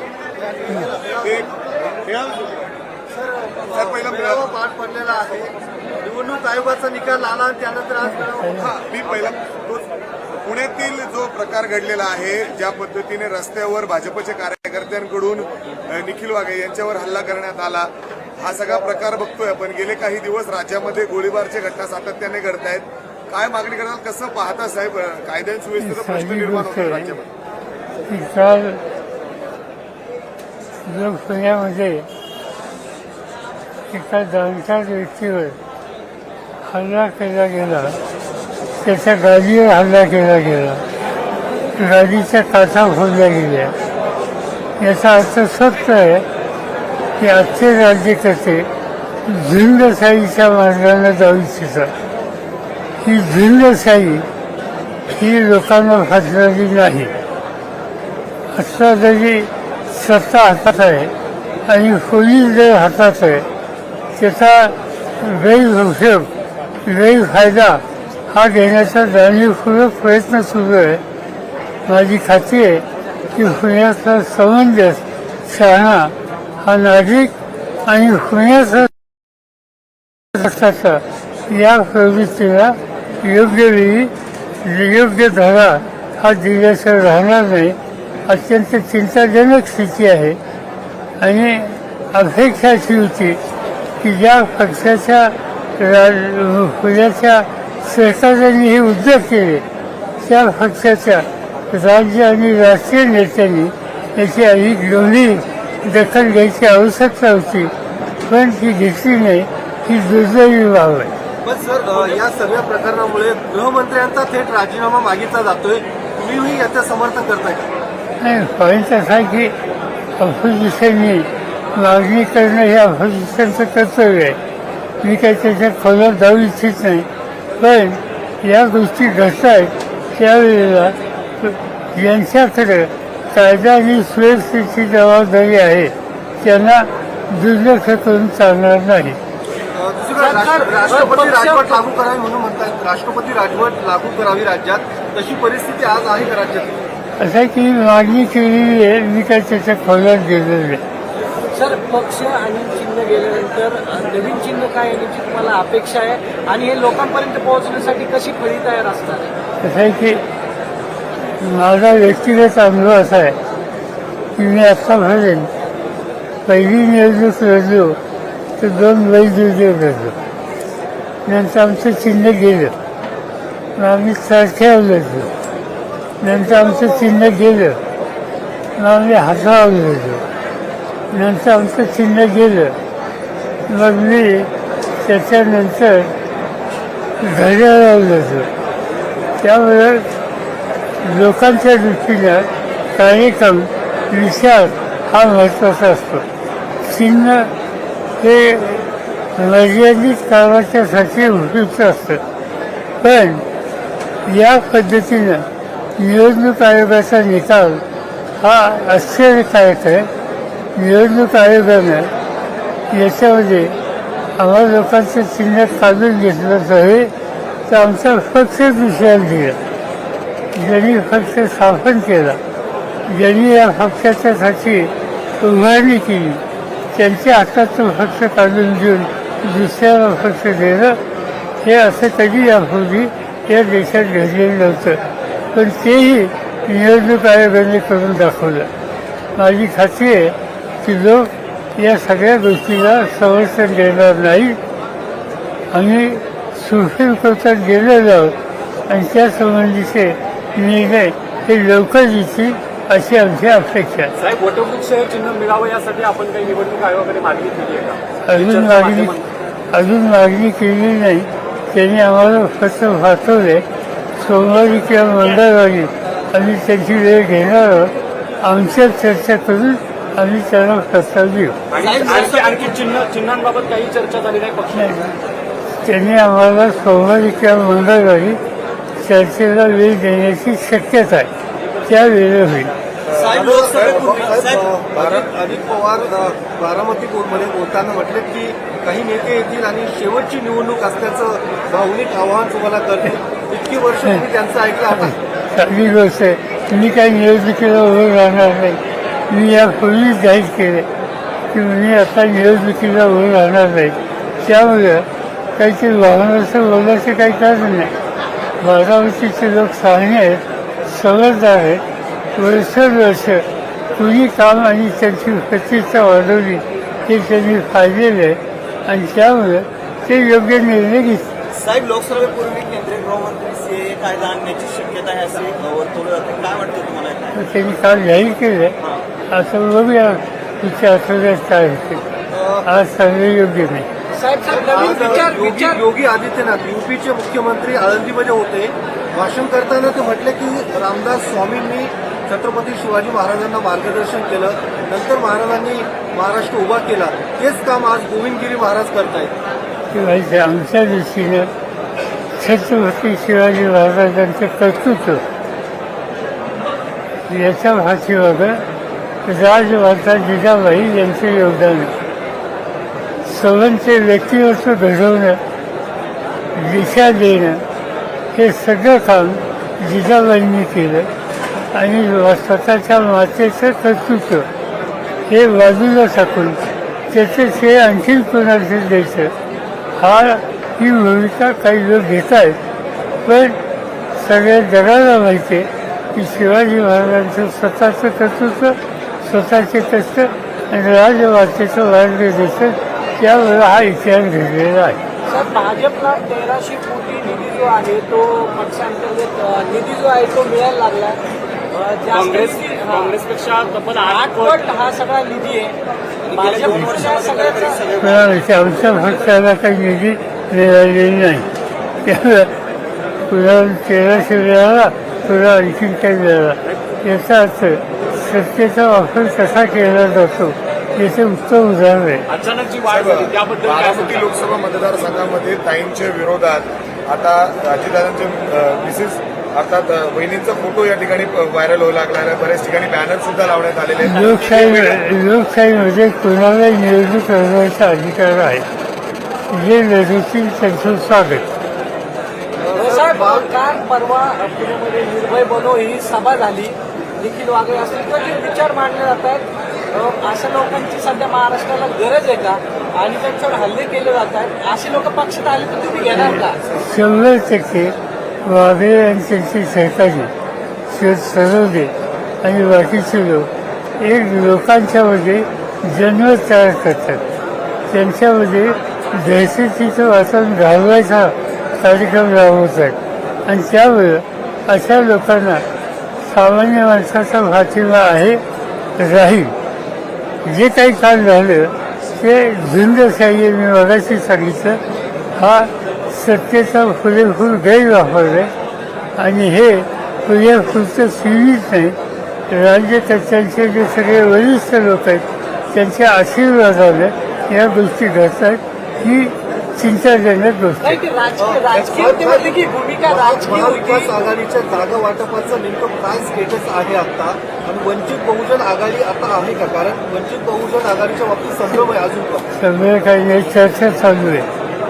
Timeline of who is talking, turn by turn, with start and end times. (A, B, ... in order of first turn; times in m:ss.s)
0:00.4-0:01.5 A
0:01.2-0:02.6 B
0:03.1-0:08.5 A
0:03.7-0:04.4 B
0:08.1-0:08.7 C
0:08.6-0:09.9 B
0:10.4-0:27.3 B
0:25.8-0:27.2 C
0:28.0-0:28.8 C
0:30.8-0:32.1 C
0:33.9-0:35.6 C
0:36.6-0:38.0 C
0:38.8-0:40.8 C
0:41.8-0:43.7 C
0:44.8-0:46.2 C
0:47.2-0:48.7 C
0:49.2-0:51.9 C
0:53.0-0:54.3 C
0:55.1-0:57.1 C
0:58.5-1:01.1 C
1:01.6-1:03.5 C
1:04.1-1:06.3 C
1:06.8-1:11.0 C
1:11.9-1:17.3 C
1:17.8-1:18.9 C
1:20.3-1:30.4 C
1:31.2-1:33.4 C
1:34.0-1:39.6 C
1:40.2-1:51.1 C
1:51.4-1:57.6 A
1:58.2-1:59.5 C
2:00.2-2:04.4 C
2:05.0-2:07.1 C
2:07.6-2:19.2 C
2:19.7-2:26.8 A
2:20.2-2:21.8 D
2:27.2-2:30.8 C
2:31.5-2:39.3 D
2:39.6-2:40.2 C
2:41.4-2:43.4 C
2:44.4-2:45.5 C
2:46.4-2:48.0 C
2:48.6-2:50.2 C
2:51.2-2:52.7 C
2:53.8-2:55.3 C
2:56.2-2:57.8 C
2:56.6-2:56.9 A
2:58.8-3:00.2 C
3:01.1-3:02.8 C
3:03.7-3:06.1 C
3:07.2-3:08.5 C
3:09.4-3:10.1 C
3:11.0-3:16.2 C
3:16.8-3:17.5 C
3:18.2-3:22.2 C
3:23.0-3:23.4 C
3:24.3-3:25.4 C
3:26.0-3:27.8 C
3:28.4-3:30.1 C
3:30.8-3:32.1 C
3:32.9-3:33.8 C
3:34.4-3:37.1 C
3:37.7-3:39.6 C
3:40.5-3:42.4 C
3:43.1-3:51.0 C
3:51.6-3:58.7 C
3:59.4-4:04.6 C
4:05.7-4:08.4 C
4:08.9-4:14.1 C
4:14.2-4:19.2 E
4:18.3-4:19.1 C
4:19.7-4:23.6 C
4:24.2-4:31.6 C
4:31.7-4:35.0 E
4:31.7-4:32.7 F
4:34.7-4:35.1 C
4:35.8-4:38.4 C
4:39.0-4:41.3 C
4:41.8-4:42.7 C
4:43.1-4:44.4 B
4:43.2-4:55.2 A
4:43.3-4:44.7 F
4:44.9-4:45.3 B
4:55.0-4:58.8 C
4:59.3-5:00.9 C
5:01.5-5:07.9 C
5:08.6-5:11.8 C
5:12.4-5:21.3 C
5:21.5-5:27.3 F
5:27.3-5:28.8 C
5:29.3-5:32.0 C
5:32.3-5:32.7 A
5:32.6-5:33.9 C
5:34.1-5:35.8 D
5:34.5-5:49.3 A
5:49.9-5:51.5 C
5:52.4-5:55.2 C
5:57.3-5:58.6 C
5:59.2-6:01.9 C
6:03.2-6:05.4 C
6:06.5-6:07.6 C
6:08.3-6:11.1 C
6:11.7-6:14.5 C
6:15.3-6:19.3 C
6:20.0-6:22.6 C
6:23.2-6:23.6 C
6:24.1-6:35.0 C
6:35.2-6:43.1 D
6:42.1-6:44.6 E
6:44.0-6:45.8 D
6:46.2-6:48.2 F
6:46.3-6:47.8 D
6:48.0-6:51.5 C
6:52.0-6:52.5 C
6:53.3-7:02.2 C
7:02.3-7:04.3 E
7:02.9-7:15.0 B
7:14.0-7:18.6 C
7:19.5-7:21.4 C
7:22.6-7:23.4 A
7:22.7-7:36.6 D
7:36.1-7:40.3 C
7:40.9-7:43.5 C
7:44.0-7:47.2 C
7:47.9-7:55.6 C
7:56.2-7:58.4 C
7:59.0-7:59.5 C
8:00.4-8:04.8 C
8:05.4-8:08.5 C
8:09.2-8:12.0 C
8:12.5-8:21.0 C
8:20.8-8:24.2 D
8:21.4-8:32.4 A
8:32.5-8:34.5 C